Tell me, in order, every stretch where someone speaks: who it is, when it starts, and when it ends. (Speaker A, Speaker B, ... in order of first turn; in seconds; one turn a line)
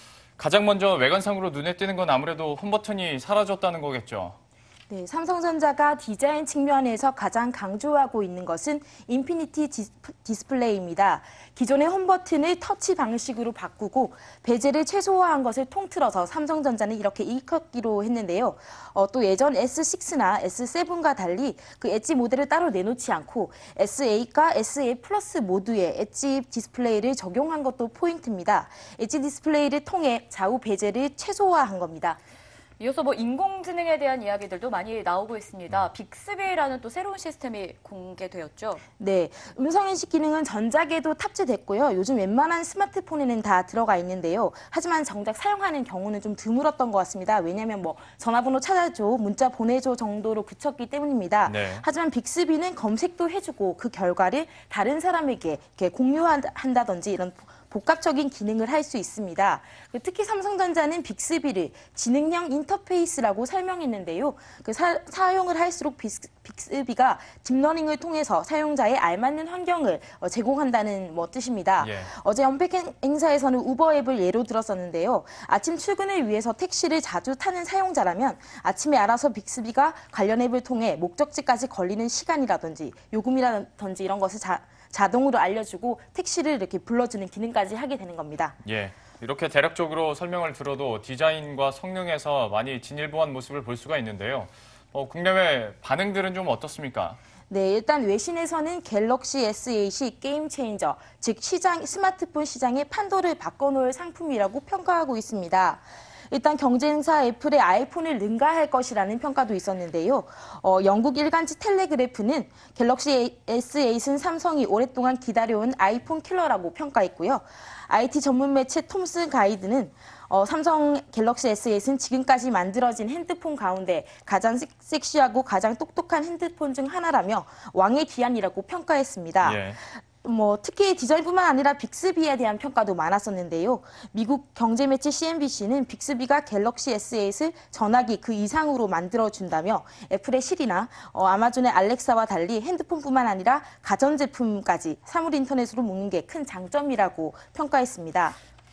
Speaker A: 0.4-4.3
Speaker B: 4.9-32.2
Speaker C: 32.8-38.8
Speaker B: 39.0-88.5
Speaker A: 51.5-51.8
Speaker A: 71.8-72.1
Speaker A: 88.6-97.2
Speaker B: 97.5-148.4
Speaker A: 129.4-129.8